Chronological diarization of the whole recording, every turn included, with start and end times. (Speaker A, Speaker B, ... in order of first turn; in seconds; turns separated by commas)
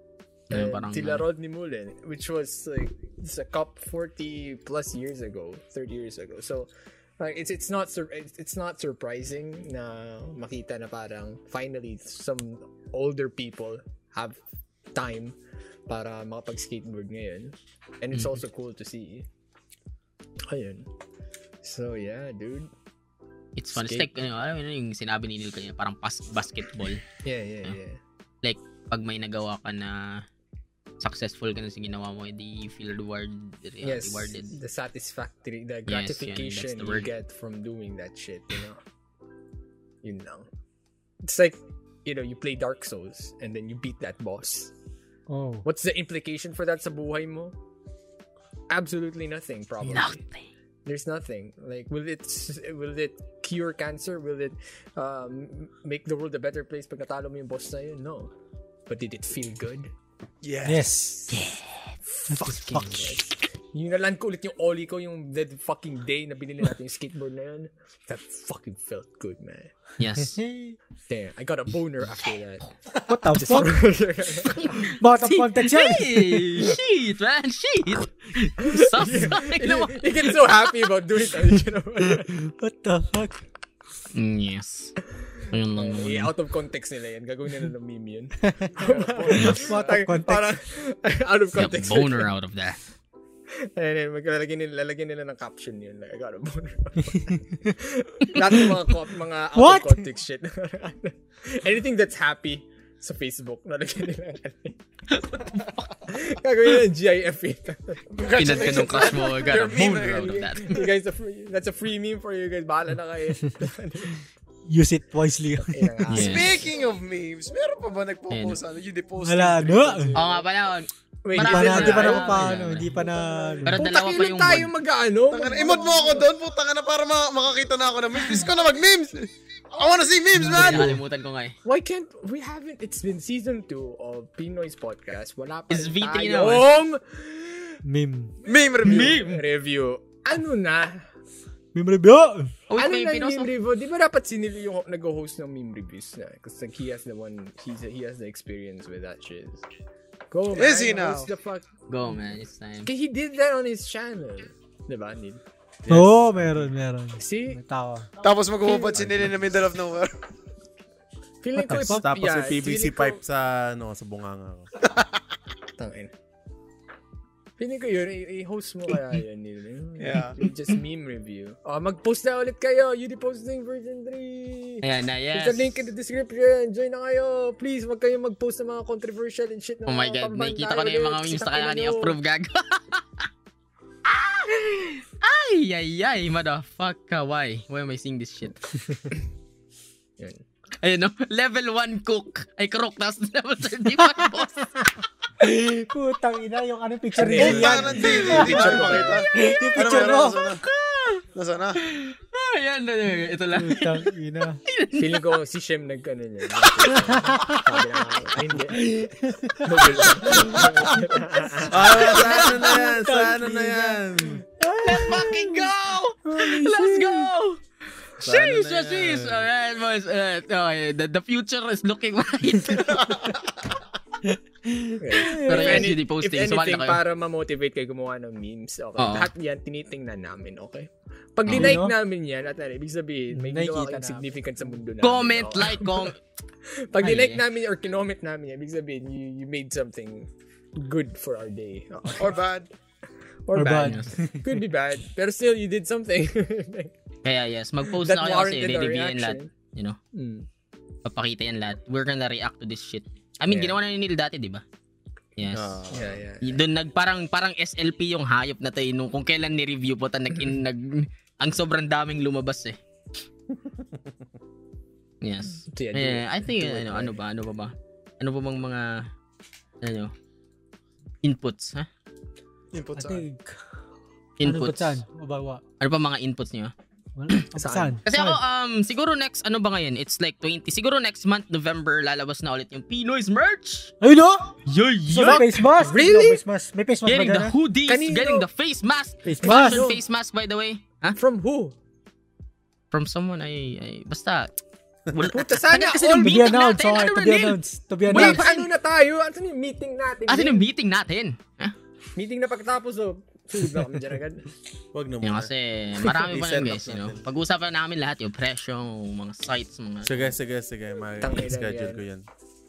Speaker A: 0.5-1.2, Speaker B: 0.5-14.4, Speaker B: 14.9-15.4, Speaker B: 15.9-19.3, Speaker B: 20.4-20.9, Speaker B: 21.6-22.7, Speaker A: 23.6-27.0, Speaker B: 23.7-24.1, Speaker B: 27.2-28.0, Speaker A: 28.4-30.2, Speaker A: 31.0-34.5, Speaker B: 33.8-38.8, Speaker A: 35.9-37.1, Speaker B: 40.0-40.5, Speaker B: 41.2-44.7, Speaker C: 45.3-45.6, Speaker B: 45.6-47.6, Speaker B: 48.7-50.2, Speaker A: 49.8-50.4, Speaker B: 50.9-58.3, Speaker B: 58.9-59.9, Speaker D: 60.4-60.9, Speaker C: 60.6-61.5, Speaker A: 61.3-61.6, Speaker B: 62.1-69.7, Speaker C: 62.3-63.1, Speaker A: 70.0-70.4, Speaker C: 70.3-70.8, Speaker B: 71.1-72.7, Speaker C: 73.1-73.7, Speaker B: 73.3-74.9, Speaker A: 74.7-80.3, Speaker C: 75.0-76.8, Speaker B: 78.6-82.4, Speaker C: 82.2-83.4, Speaker A: 84.1-85.0, Speaker A: 85.5-86.3, Speaker B: 85.8-92.3, Speaker C: 88.6-90.5, Speaker A: 89.3-89.7, Speaker A: 91.6-92.8, Speaker B: 93.5-109.3, Speaker C: 99.6-100.1, Speaker D: 108.1-110.5, Speaker A: 108.4-110.8, Speaker B: 110.0-114.2, Speaker C: 114.7-116.3, Speaker B: 115.6-116.6, Speaker A: 116.1-116.6, Speaker D: 116.2-120.4, Speaker A: 118.3-118.6, Speaker C: 119.2-120.2, Speaker A: 120.2-123.0, Speaker B: 121.2-126.3, Speaker C: 121.4-123.8, Speaker A: 123.7-124.7, Speaker D: 125.3-131.0, Speaker C: 130.4-131.0, Speaker A: 130.4-131.6, Speaker B: 131.6-137.8, Speaker A: 135.7-136.7, Speaker C: 137.8-138.3, Speaker D: 138.4-139.3, Speaker B: 138.8-141.1, Speaker A: 138.8-139.4, Speaker C: 141.7-142.5, Speaker A: 142.7-143.5, Speaker B: 142.7-149.7, Speaker B: 150.3-151.7, Speaker D: 150.5-151.3, Speaker A: 151.9-152.9, Speaker B: 152.8-155.4, Speaker E: 155.8-156.7, Speaker C: 155.9-158.1, Speaker B: 157.2-157.6, Speaker D: 158.2-160.1, Speaker E: 158.9-159.2, Speaker B: 161.4-163.2, Speaker C: 161.6-162.0, Speaker E: 161.8-164.7, Speaker B: 165.8-166.1, Speaker B: 167.6-182.2, Speaker D: 170.0-170.4, Speaker A: 174.8-175.7, Speaker A: 179.9-183.2, Speaker A: 184.1-188.6, Speaker B: 190.2-190.4, Speaker A: 190.8-194.6, Speaker C: 195.4-200.5, Speaker B: 197.2-199.2, Speaker D: 197.3-200.6, Speaker A: 200.6-201.2, Speaker D: 201.3-201.8, Speaker A: 201.9-204.1, Speaker C: 203.5-204.6, Speaker A: 204.7-205.2, Speaker B: 204.9-212.2, Speaker C: 207.2-207.6, Speaker C: 209.0-210.8, Speaker E: 211.7-214.4, Speaker A: 211.9-212.6, Speaker C: 212.3-215.7, Speaker A: 214.8-223.4, Speaker C: 216.3-217.3, Speaker E: 218.2-219.5, Speaker B: 225.0-236.1, Speaker C: 225.2-225.9, Speaker A: 225.4-227.0, Speaker A: 229.0-229.3, Speaker A: 231.5-231.8, Speaker C: 231.5-231.9, Speaker C: 233.3-234.2, Speaker A: 235.0-236.2, Speaker B: 236.7-242.4, Speaker A: 237.0-237.4, Speaker D: 242.2-242.7, Speaker B: 243.5-246.9, Speaker C: 243.5-244.6, Speaker A: 243.8-244.2, Speaker A: 247.2-250.0, Speaker B: 247.9-249.5, Speaker B: 250.1-250.5, Speaker A: 251.1-254.6, Speaker B: 253.5-253.8, Speaker A: 255.4-255.8, Speaker E: 255.5-256.2, Speaker B: 255.9-256.6, Speaker A: 256.4-262.8, Speaker E: 263.6-264.1, Speaker A: 265.2-269.1, Speaker B: 265.6-267.2, Speaker A: 269.8-270.1, Speaker A: 271.2-271.9, Speaker D: 272.7-273.2, Speaker C: 272.9-273.6, Speaker A: 274.4-275.0, Speaker C: 274.4-275.6, Speaker A: 275.8-276.7, Speaker C: 277.2-278.4, Speaker B: 277.6-278.0, Speaker A: 278.1-283.9, Speaker C: 284.0-284.6, Speaker A: 284.7-285.7, Speaker C: 285.1-287.6, Speaker B: 285.3-286.4, Speaker A: 287.1-291.2, Speaker B: 287.9-288.5, Speaker C: 289.2-289.9, Speaker B: 289.4-290.0, Speaker B: 291.2-291.7, Speaker A: 292.9-294.5, Speaker A: 295.1-298.7, Speaker B: 295.2-296.5, Speaker C: 296.0-298.5, Speaker B: 298.1-300.6, Speaker A: 300.3-301.8, Speaker B: 302.2-304.5, Speaker E: 304.9-305.5, Speaker A: 305.2-310.3, Speaker E: 306.1-307.3, Speaker E: 310.0-312.3, Speaker B: 311.2-312.0